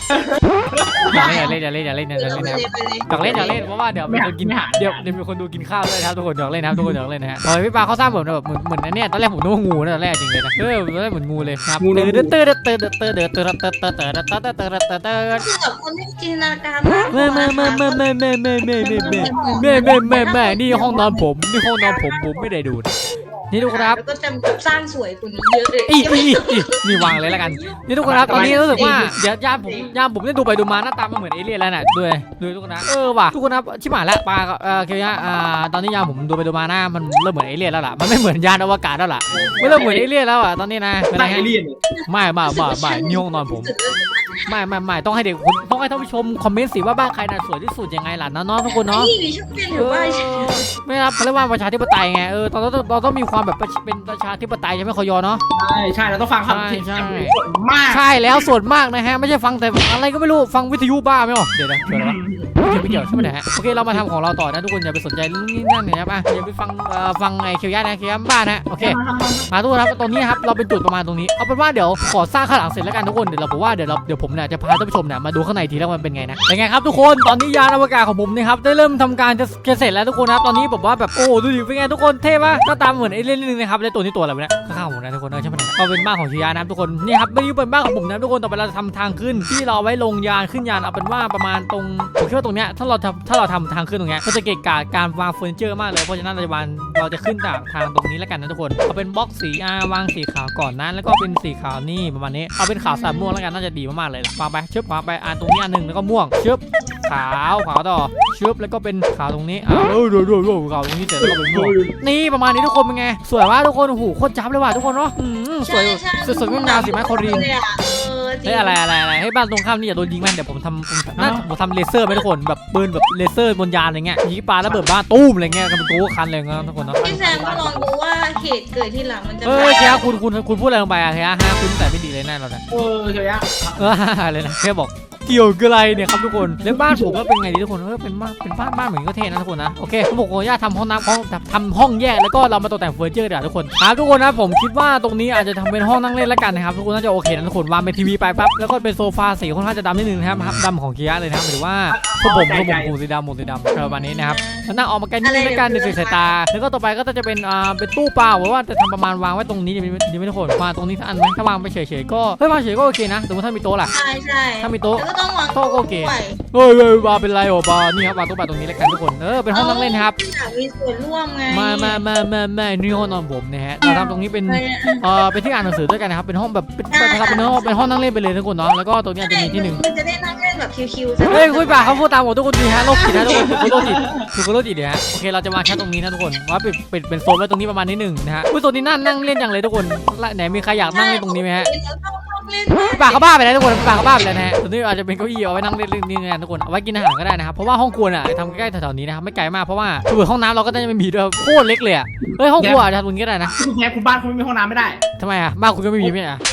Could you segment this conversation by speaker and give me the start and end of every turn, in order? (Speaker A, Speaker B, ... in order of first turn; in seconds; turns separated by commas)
Speaker A: 0.1-1.5, Speaker B: 1.1-1.6, Speaker C: 1.1-15.5, Speaker B: 2.2-3.5, Speaker A: 3.1-5.2, Speaker A: 6.7-7.0, Speaker A: 11.8-12.3, Speaker B: 15.3-18.0, Speaker C: 17.1-22.9, Speaker A: 18.8-19.9, Speaker B: 18.9-29.1, Speaker C: 23.5-24.0, Speaker C: 25.9-41.5, Speaker A: 28.0-29.9, Speaker A: 39.3-40.1, Speaker A: 41.1-41.8, Speaker B: 41.9-44.6, Speaker C: 42.1-43.7, Speaker C: 44.5-49.1, Speaker B: 48.7-50.7, Speaker C: 49.7-55.4, Speaker A: 55.5-58.5, Speaker C: 56.5-69.0, Speaker A: 61.9-63.3, Speaker A: 68.8-69.5, Speaker C: 69.5-117.5, Speaker B: 102.8-103.4, Speaker A: 111.2-112.0, Speaker B: 115.6-118.8, Speaker C: 118.5-127.1, Speaker A: 121.2-121.5, Speaker A: 126.8-127.9, Speaker B: 127.0-130.2, Speaker C: 129.4-132.6, Speaker A: 132.7-133.9, Speaker C: 133.8-163.9, Speaker A: 136.6-137.2, Speaker A: 151.9-152.9, Speaker B: 153.7-154.7, Speaker B: 155.2-156.3, Speaker B: 163.9-166.4, Speaker C: 164.6-170.1, Speaker B: 169.5-172.0, Speaker C: 171.5-179.8, Speaker B: 173.8-175.1, Speaker B: 176.9-178.1, Speaker B: 179.2-182.0, Speaker C: 181.3-191.7, Speaker B: 182.8-183.6, Speaker A: 183.0-184.3, Speaker B: 190.9-194.1, Speaker C: 192.9-203.5, Speaker A: 202.6-202.9, Speaker A: 203.5-205.0, Speaker C: 205.2-206.4